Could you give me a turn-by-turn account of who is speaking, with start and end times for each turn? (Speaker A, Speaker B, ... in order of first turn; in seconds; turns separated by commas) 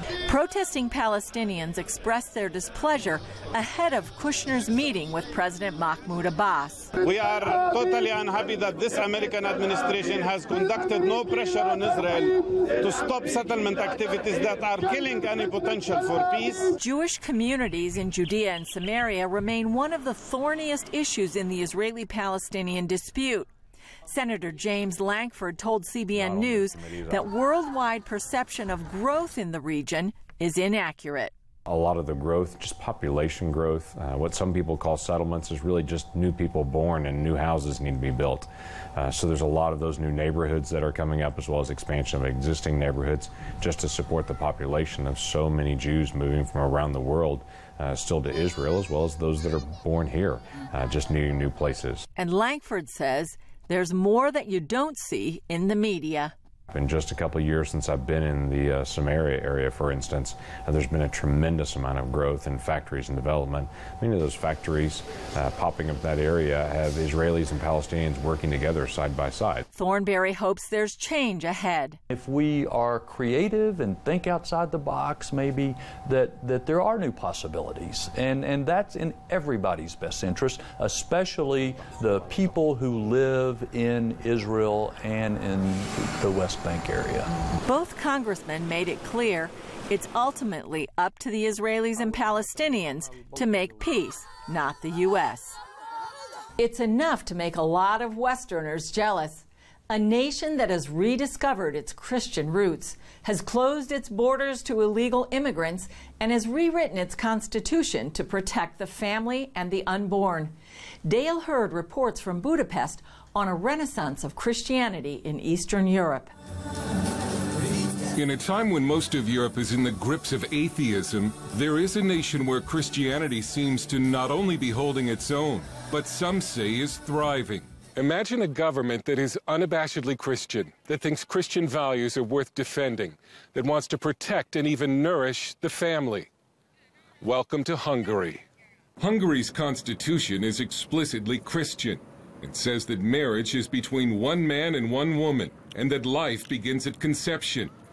Speaker A: 0.3-6.9, Speaker B: 7.0-16.7, Speaker A: 16.8-23.5, Speaker A: 24.1-31.3, Speaker C: 26.1-27.3, Speaker C: 31.7-52.0, Speaker A: 52.2-56.3, Speaker C: 56.7-69.7, Speaker A: 69.7-72.0, Speaker D: 72.1-87.3, Speaker A: 87.6-95.6, Speaker A: 96.6-110.5, Speaker A: 111.0-116.3, Speaker E: 118.1-136.3, Speaker E: 137.2-138.4, Speaker E: 139.0-147.7